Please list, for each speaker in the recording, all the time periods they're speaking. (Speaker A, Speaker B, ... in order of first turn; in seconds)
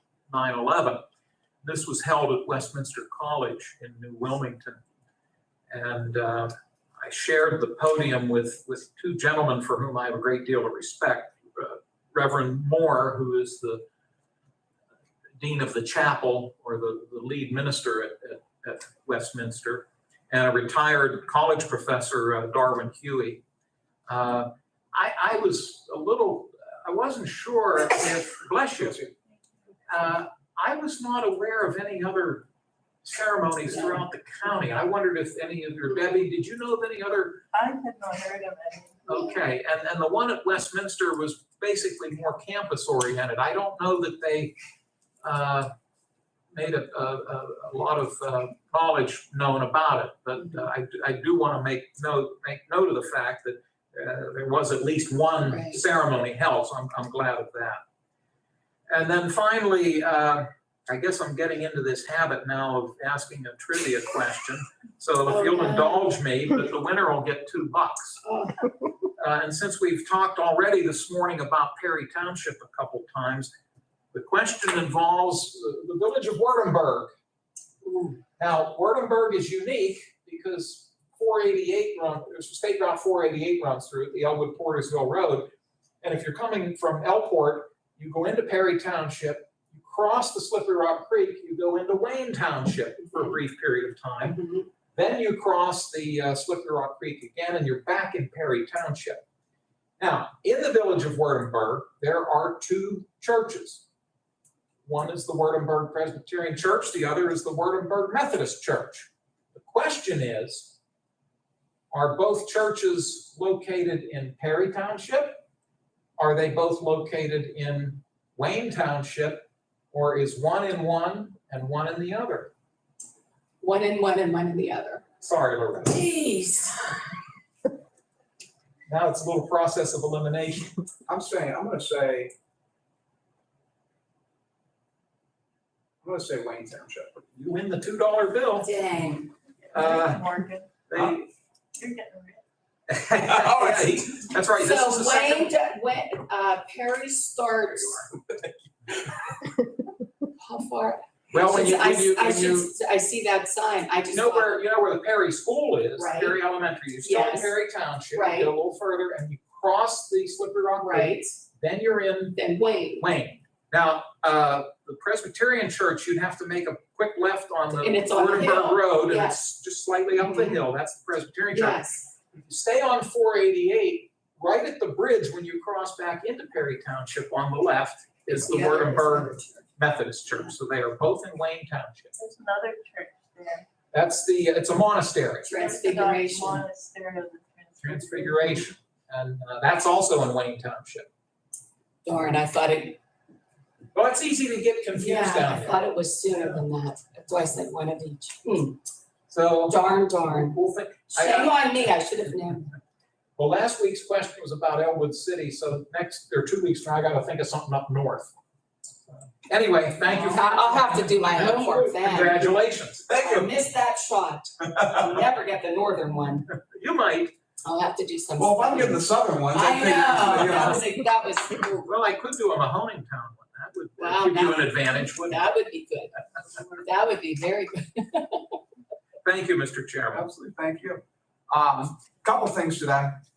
Speaker A: 0.3-1.0, 1.6-4.8, 5.7-13.8, 15.4-23.4, 24.1-29.1, 29.9-32.5, 33.0-37.4, 39.1-44.5, 45.2-45.7, 46.5-57.8, 58.9-68.2, 69.2-73.5, 74.1-77.1, 77.8-85.5, 86.0-94.4, 94.9-99.2, 100.0-103.8, 104.8-110.8, 111.9-115.4, 116.2-122.5, 125.2-126.0, 128.9-130.8, 137.3-138.7, 139.7-140.3, 140.9-141.3, 142.9-145.5, 151.3-152.7, 154.1-162.4, 163.0-182.1, 183.9-185.5, 187.8-191.1, 193.9-195.8, 199.3-201.5, 203.4-208.3, 209.4-213.5, 216.5-217.3, 220.4-220.8, 221.8-225.4, 229.2-230.3
Speaker B: 37.5-39.0, 139.6-140.7, 141.7-142.4, 182.2-183.6, 185.5-188.7
Speaker C: 55.5-55.8, 65.3-66.0, 68.2-68.7, 94.2-94.7, 123.6-125.0, 125.8-127.1, 138.6-139.3, 144.6-148.1, 150.4-154.5, 156.0-156.4, 157.0-157.6, 158.1-158.5, 160.8-161.4, 162.4-163.0, 167.7-169.4, 170.1-170.6, 171.5-172.1, 178.3-179.7, 185.4-186.6, 192.0-193.0, 194.9-198.8, 199.7-200.6, 201.1-202.7, 210.0-212.5, 213.1-216.4, 217.6-221.9, 224.0-228.6
Speaker D: 131.1-132.3, 136.0-137.1, 218.4-220.8, 230.1-233.2